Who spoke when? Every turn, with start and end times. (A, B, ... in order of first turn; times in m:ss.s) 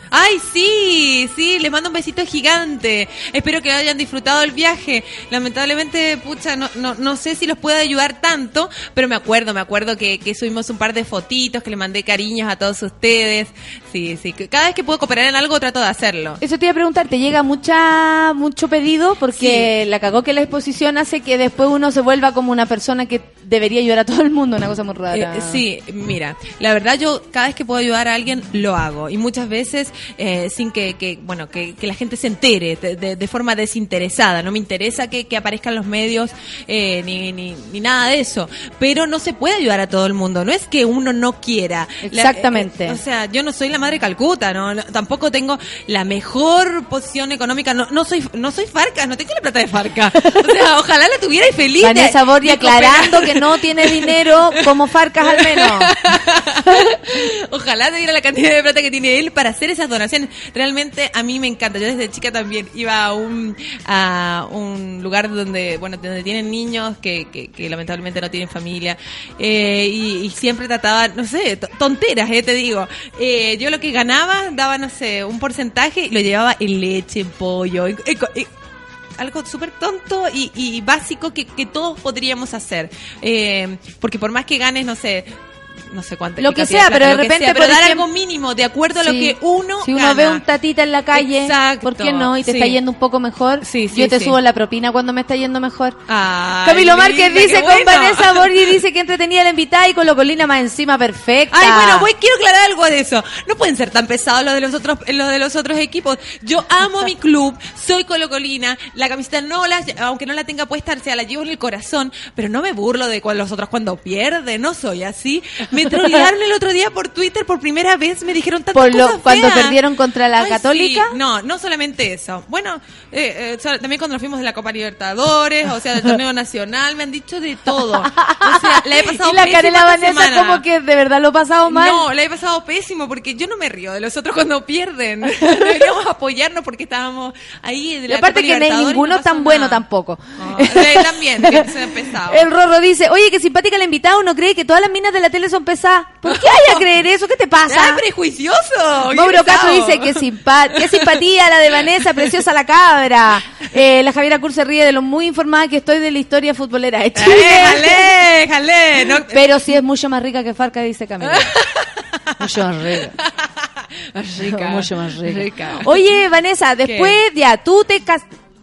0:00.1-0:16.4 A
0:16.4-0:25.6 B
0:19.4-0:19.7 A
0:25.1-0:54.6 A
0:42.0-0:43.0 B
0:50.2-0:50.5 B
0:51.8-0:55.9 B
0:55.2-1:18.5 A
1:19.2-1:25.3 A
1:25.8-1:30.4 A
1:26.4-1:28.1 B
1:28.9-1:36.0 B
1:31.1-1:32.8 A
1:33.6-1:34.4 A
1:36.1-1:38.7 A
1:36.6-1:42.1 B
1:41.5-1:59.8 A
1:58.7-2:01.2 B
2:00.4-2:10.6 A
2:07.9-2:12.0 B
2:11.7-2:19.8 A
2:15.3-2:15.8 B
2:18.1-2:21.7 B
2:20.4-2:22.5 A
2:22.2-2:28.0 B
2:26.2-2:26.8 A
2:27.7-2:31.2 A
2:29.1-2:38.2 B
2:37.1-2:39.5 A
2:39.1-2:41.6 B
2:41.2-2:46.2 A
2:42.4-2:43.1 B
2:44.4-2:48.3 B
2:46.8-2:47.2 A